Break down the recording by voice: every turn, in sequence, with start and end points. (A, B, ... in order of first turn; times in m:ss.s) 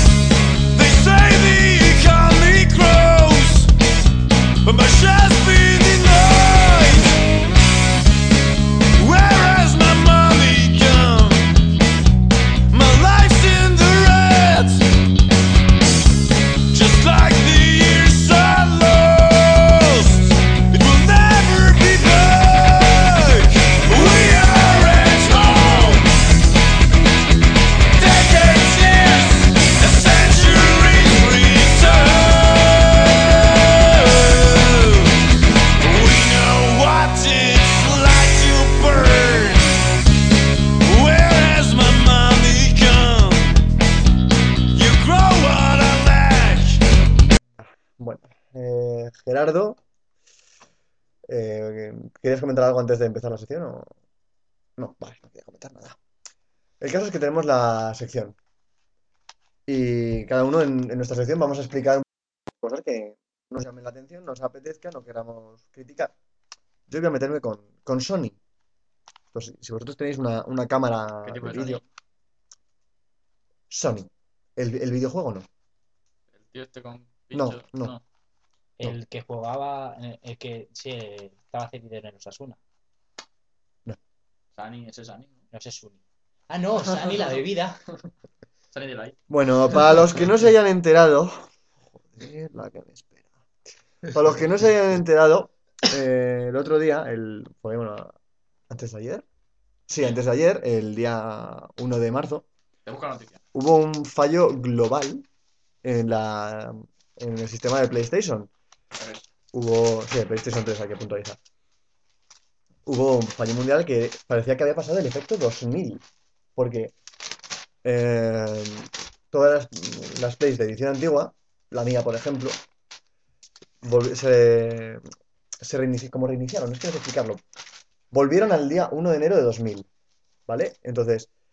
0:00.7-0:03.7 A
0:04.6-0:07.2 A
0:09.0-0:11.6 A
0:12.7-0:14.8 A
0:16.7-0:26.1 A
0:27.9-0:35.1 A
0:35.8-0:39.8 A
0:40.8-0:43.5 A
0:44.7-0:46.8 A
0:48.0-0:49.8 B
0:51.3-0:53.9 B
0:54.8-0:56.0 B
0:56.8-0:58.4 B
0:59.7-1:06.1 B
1:06.9-1:08.4 B
1:09.3-1:11.8 B
1:11.2-1:11.8 C
1:13.7-1:15.5 B
1:16.4-1:18.0 C
1:17.3-1:17.9 B
1:18.8-1:22.6 D
1:24.5-1:25.4 C
1:25.5-1:27.8 D
1:28.7-1:29.2 C
1:29.3-1:33.2 B
1:34.1-1:38.1 B
1:38.7-1:39.2 B
1:39.9-1:42.5 B
1:42.8-1:43.4 C
1:43.5-1:45.2 B
1:45.8-1:48.5 B
1:49.0-1:49.2 C
1:49.5-1:51.4 B
1:52.8-1:56.0 B
1:56.6-1:56.9 B
1:57.8-2:02.6 B
2:03.8-2:05.0 B
2:05.6-2:07.4 B
2:08.1-2:09.9 B
2:10.5-2:11.3 B